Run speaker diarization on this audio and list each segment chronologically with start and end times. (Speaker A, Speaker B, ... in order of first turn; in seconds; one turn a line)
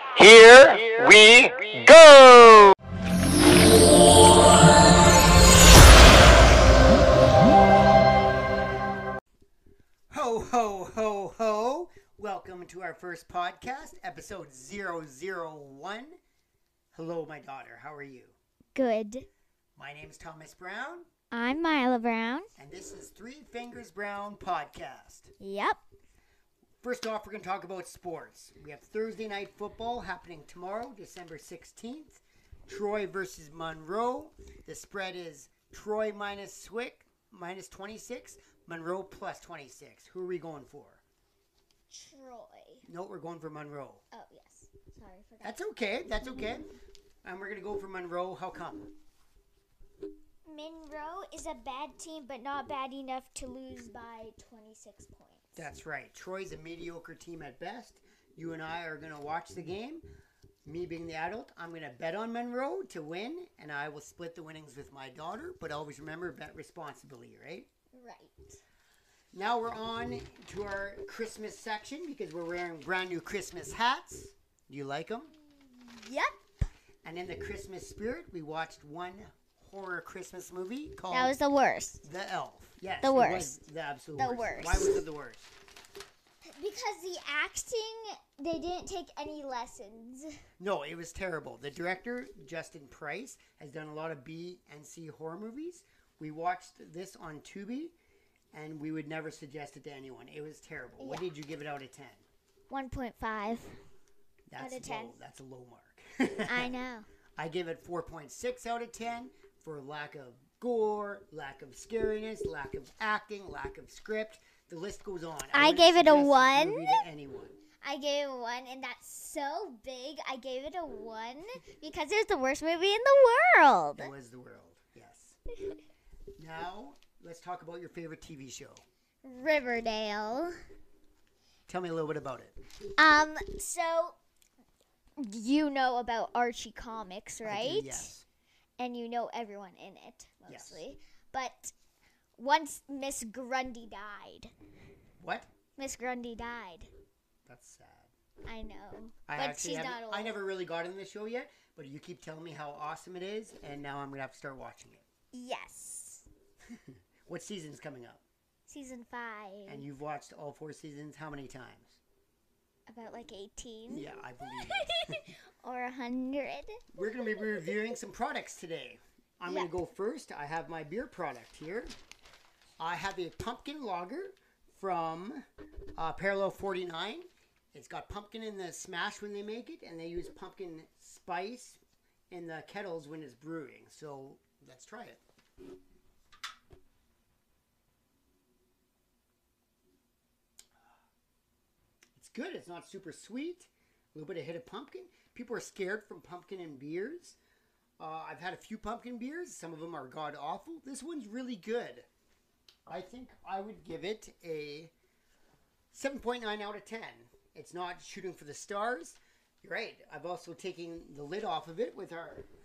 Speaker A: 0.1-2.7
Speaker B: 10.1-16.2
Speaker B: 16.9-18.4
Speaker C: 18.7-19.3
Speaker B: 19.8-21.1
Speaker C: 21.3-22.5
Speaker B: 22.6-25.3
Speaker C: 25.4-25.8
Speaker B: 26.8-41.0
Speaker C: 41.9-42.8
Speaker B: 42.8-44.0
Speaker C: 44.1-45.6
Speaker B: 45.4-46.7
Speaker B: 47.2-48.9
Speaker C: 50.5-55.6
Speaker B: 55.5-60.1
Speaker B: 60.6-67.7
Speaker C: 67.9-68.6
Speaker B: 69.3-75.3
Speaker C: 75.5-76.4
Speaker B: 77.0-81.3
Speaker C: 81.1-82.0
Speaker B: 82.0-85.5
Speaker C: 83.0-83.6
Speaker C: 84.2-85.0
Speaker C: 86.5-90.4
Speaker B: 90.6-97.9
Speaker B: 98.5-102.2
Speaker C: 101.0-101.3
Speaker C: 102.7-103.7
Speaker B: 104.5-106.7
Speaker C: 104.6-105.2
Speaker C: 106.5-107.1
Speaker B: 107.4-117.5
Speaker C: 115.5-117.0
Speaker C: 117.8-124.1
Speaker B: 124.0-125.4
Speaker B: 126.4-128.8
Speaker C: 129.2-130.5
Speaker B: 131.7-132.6
Speaker C: 133.0-134.2
Speaker C: 135.2-138.1
Speaker B: 137.4-138.2
Speaker C: 138.8-141.7
Speaker B: 140.5-140.8
Speaker C: 142.4-144.5
Speaker B: 145.2-145.5
Speaker C: 145.8-146.9
Speaker B: 147.5-148.1
Speaker C: 148.4-150.3
Speaker B: 149.3-155.1
Speaker C: 155.3-156.2
Speaker B: 156.7-158.2
Speaker C: 158.7-159.9
Speaker B: 159.7-162.0
Speaker C: 162.9-166.8
Speaker B: 163.9-165.3
Speaker B: 166.9-171.9
Speaker C: 167.3-167.6
Speaker C: 169.4-169.7
Speaker B: 172.8-175.4
Speaker B: 176.0-185.2
Speaker B: 192.2-197.4
Speaker B: 198.0-202.1
Speaker B: 202.9-204.9
Speaker B: 205.9-212.5